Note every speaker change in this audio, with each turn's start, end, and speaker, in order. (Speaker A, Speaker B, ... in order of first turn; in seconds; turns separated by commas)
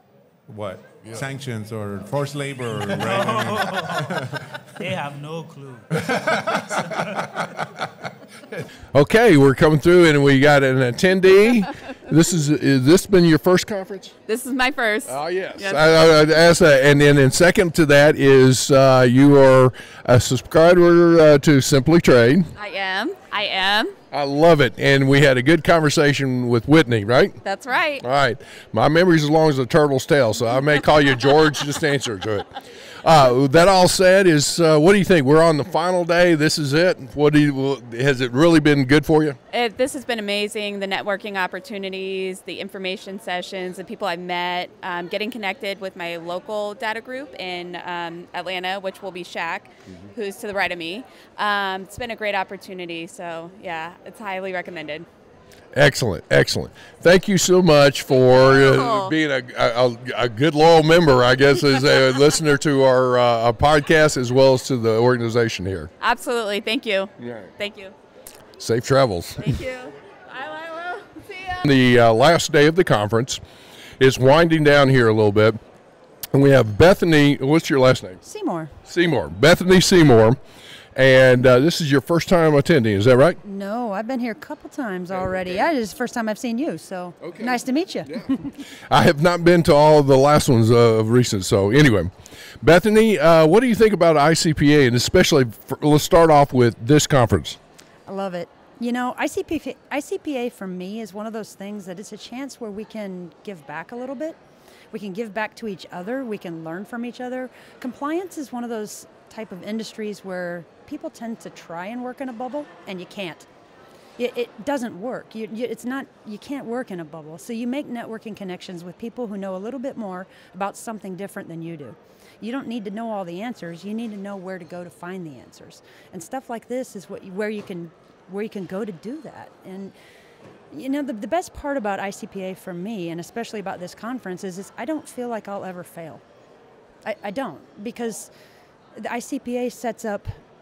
Speaker A: 0.5-4.5, Speaker B: 2.7-7.4, Speaker C: 8.9-14.1, Speaker D: 14.3-16.0, Speaker C: 15.1-22.5, Speaker D: 22.6-24.0, Speaker C: 24.1-27.4, Speaker D: 27.4-28.0, Speaker C: 28.0-32.5, Speaker C: 33.0-39.4, Speaker D: 39.5-55.1, Speaker C: 55.7-65.9, Speaker D: 58.1-59.1, Speaker D: 66.0-67.9, Speaker C: 67.2-67.5, Speaker C: 68.6-69.6, Speaker D: 69.4-71.6, Speaker C: 71.6-73.4, Speaker C: 74.0-75.6, Speaker C: 76.3-78.2, Speaker E: 78.2-78.7, Speaker C: 78.9-80.4, Speaker C: 81.0-83.4, Speaker E: 83.4-88.4, Speaker C: 85.1-85.7, Speaker C: 87.2-97.6, Speaker E: 98.1-104.4, Speaker E: 104.9-113.5, Speaker E: 114.2-129.9, Speaker E: 130.7-136.2, Speaker E: 137.1-138.3, Speaker E: 139.0-140.4